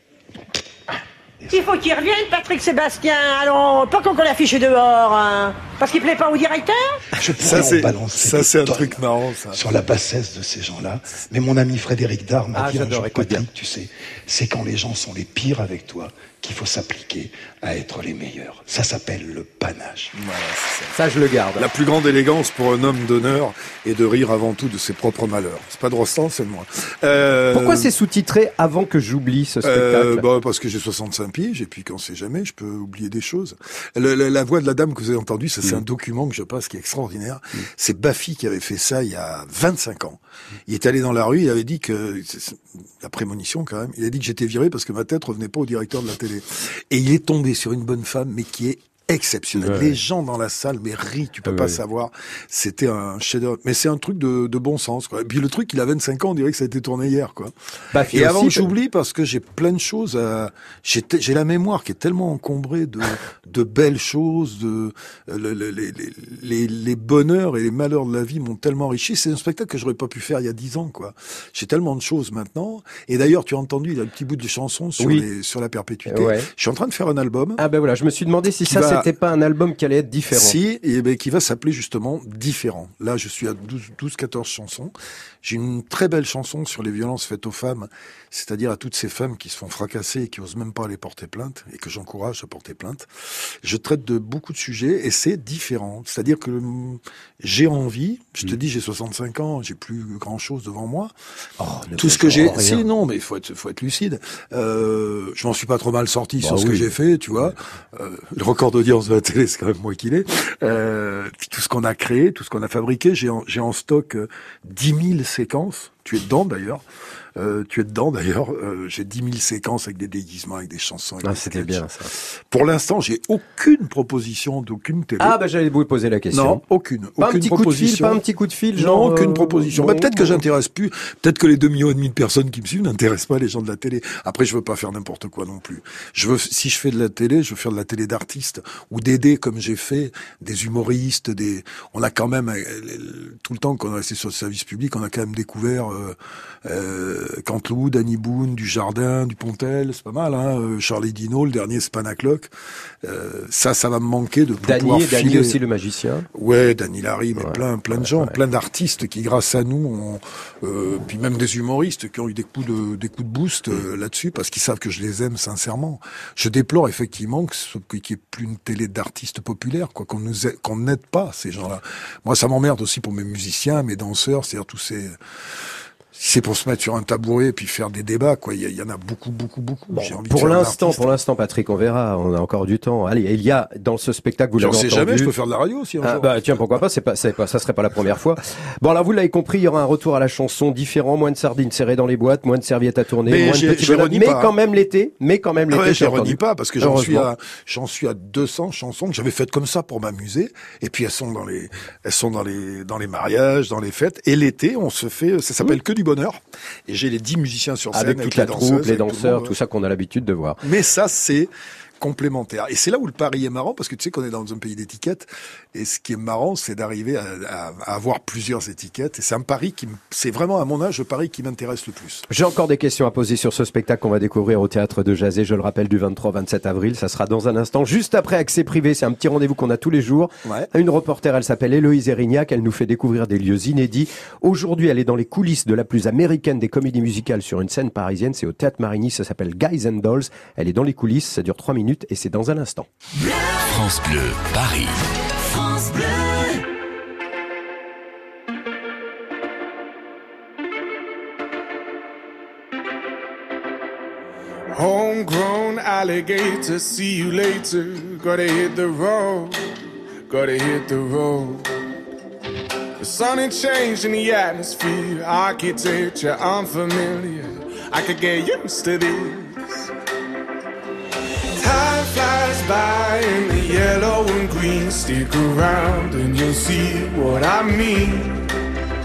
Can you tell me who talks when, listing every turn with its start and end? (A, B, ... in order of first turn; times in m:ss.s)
0:01.5-0:07.0 A
0:07.1-0:09.0 B
0:07.3-0:09.6 C
0:09.5-0:20.1 B
0:12.5-0:13.5 D
0:20.1-0:21.0 C
0:20.9-0:21.6 D
0:21.6-0:27.9 C
0:27.5-0:30.2 D
0:29.6-1:17.6 C
0:49.6-0:50.0 D
0:51.5-0:51.8 D
0:57.9-0:58.7 D
1:15.0-1:15.3 D
1:16.1-1:16.5 D
1:17.6-1:20.6 D
1:18.6-1:19.1 C
1:20.3-1:41.1 C
1:41.6-1:42.8 D
1:42.0-1:56.8 C
1:46.4-1:46.9 D
1:57.4-2:05.4 C
2:01.2-2:02.1 D
2:05.2-2:06.6 D
2:06.3-2:08.2 C
2:07.2-2:10.4 D
2:08.8-2:32.5 C
2:33.0-2:35.6 C
2:34.6-2:36.3 D
2:36.3-2:55.2 C
2:37.4-2:38.4 D
2:56.1-3:01.2 C
2:59.9-3:05.3 D
3:04.6-3:06.8 C
3:06.0-3:17.3 D
3:13.2-3:14.6 C
3:15.7-3:29.6 C
3:27.9-3:30.6 D
3:30.6-3:42.3 C
3:42.3-4:02.9 D
4:03.2-4:06.6 E
4:14.7-4:19.7 F
4:20.3-4:21.6 F
4:23.0-4:29.9 F
4:31.6-4:38.5 F